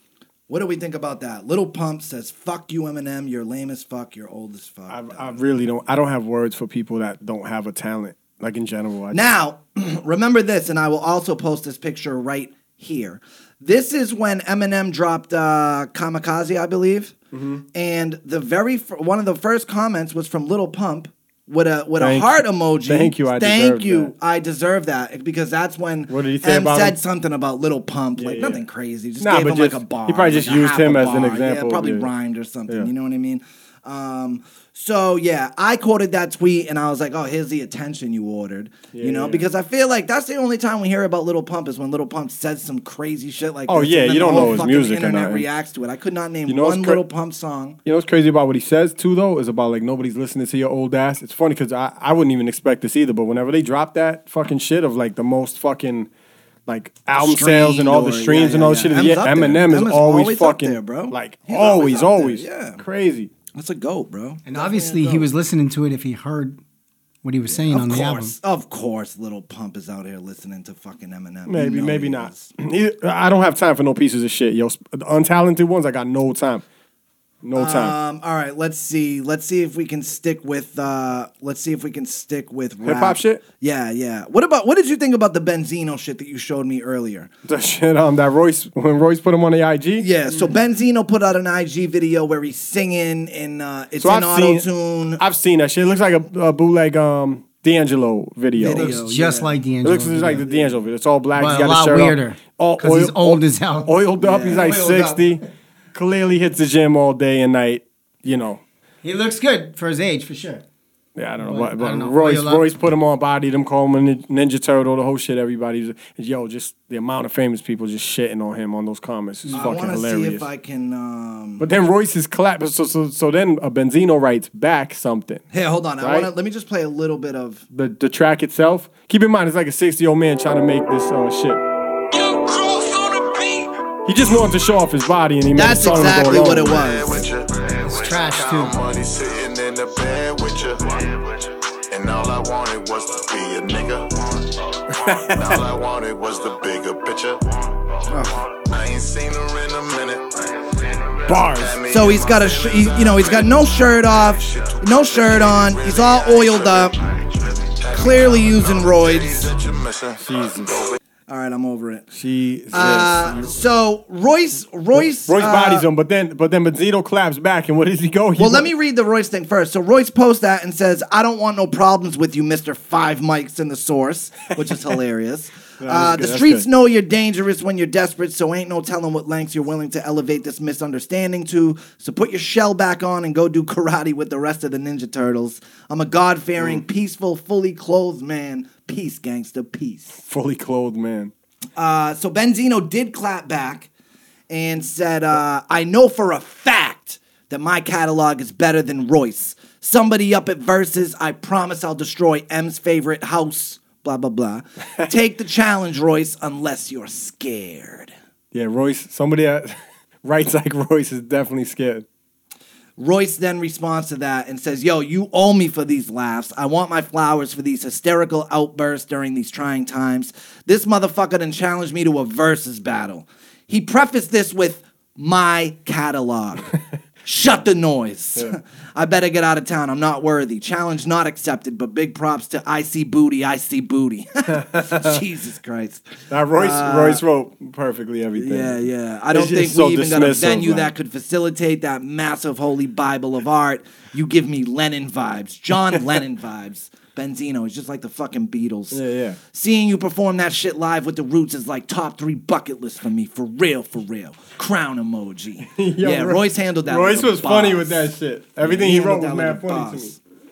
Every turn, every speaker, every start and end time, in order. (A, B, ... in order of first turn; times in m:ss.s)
0:00.5-0:05.5 A
0:04.9-0:09.2 B
0:09.1-0:17.2 A
0:17.3-0:17.6 B
0:17.7-0:47.8 A
0:22.0-0:24.1 B
0:26.1-0:27.0 B
0:28.2-0:28.6 B
0:29.2-0:32.1 B
0:38.9-0:39.5 B
0:43.7-0:45.5 B
0:46.5-0:47.0 B
0:47.9-0:56.1 B
0:56.7-1:03.3 B
0:57.1-1:02.8 A
1:03.6-1:05.3 A
1:04.5-1:06.6 C
1:07.2-1:08.4 C
1:07.5-1:12.5 A
1:11.5-1:16.6 B
1:17.4-1:18.0 B
1:17.6-1:27.3 A
1:22.8-1:23.4 B
1:27.5-1:30.1 B
1:30.0-1:35.2 A
1:34.0-1:34.7 B
1:35.2-1:39.0 B
1:38.6-1:39.6 A
1:38.6-1:40.5 C
1:39.8-1:45.4 B
1:40.4-1:40.8 A
1:41.4-1:45.4 C
1:44.2-1:44.8 A
1:45.9-1:48.6 B
1:49.0-1:50.6 C
1:51.2-2:00.5 B
1:51.4-1:52.7 C
1:59.5-2:01.7 A
2:01.6-2:05.4 B
2:05.5-2:07.6 A
2:06.0-2:06.3 B
2:07.7-2:11.6 B
2:12.2-2:13.7 D
2:14.0-2:16.8 B
2:15.6-2:17.2 A
2:16.0-2:41.0 D
2:17.8-2:18.8 C
2:25.0-2:25.6 B
2:28.1-2:28.4 A
2:31.3-2:31.8 B
2:31.9-2:37.0 A
2:37.9-2:39.5 A
2:40.2-2:40.8 B
2:41.3-2:42.1 A
2:42.1-2:43.5 B
2:42.7-2:45.9 A
2:44.9-2:48.7 B
2:48.4-3:10.2 A
2:55.8-2:56.7 B
3:10.2-3:11.3 B
3:11.8-3:13.9 A
3:14.5-3:28.1 A
3:28.5-3:32.1 B
3:33.0-3:57.2 A
3:54.5-3:55.2 B
3:56.3-4:00.9 B
3:58.4-4:09.0 A
4:08.9-4:09.4 B
4:09.5-4:20.2 A
4:15.7-4:20.2 B